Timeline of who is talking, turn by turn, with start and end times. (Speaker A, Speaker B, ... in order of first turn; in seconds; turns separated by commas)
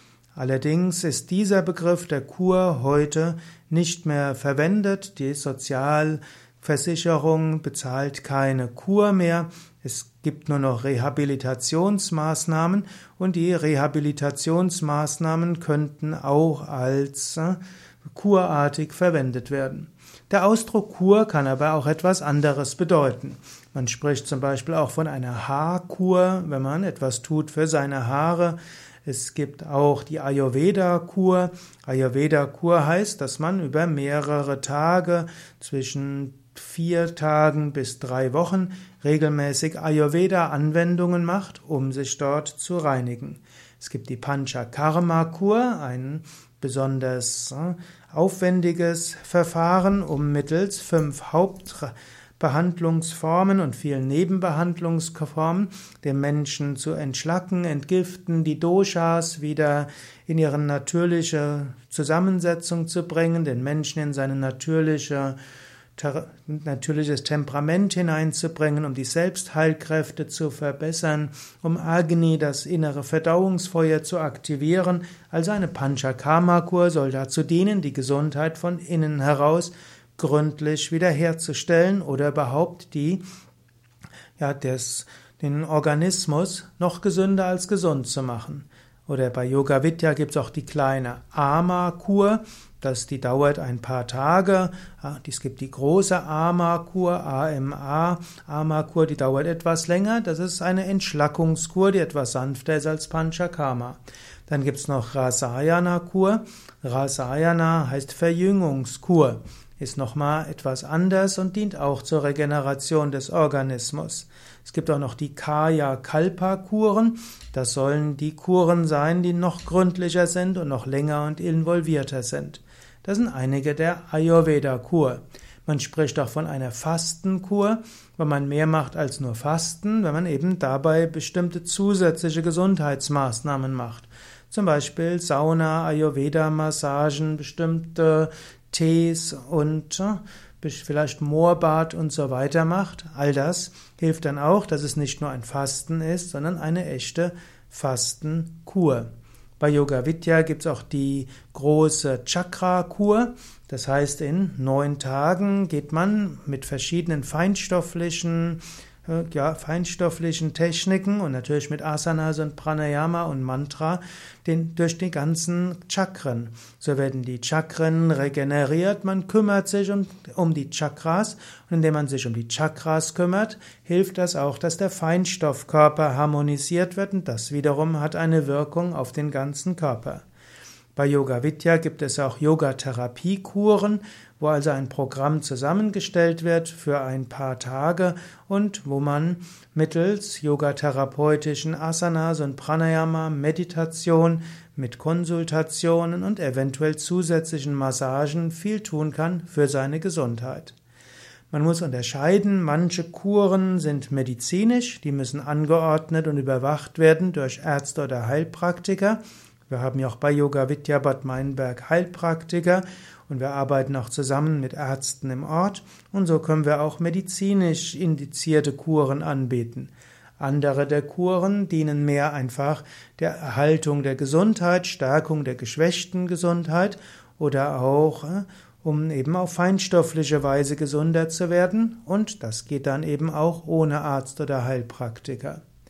Speaker A: 0.3-65.4, Speaker A: 66.0-83.2, Speaker A: 84.4-149.1, Speaker A: 149.6-180.2, Speaker A: 181.0-200.8, Speaker A: 201.5-235.6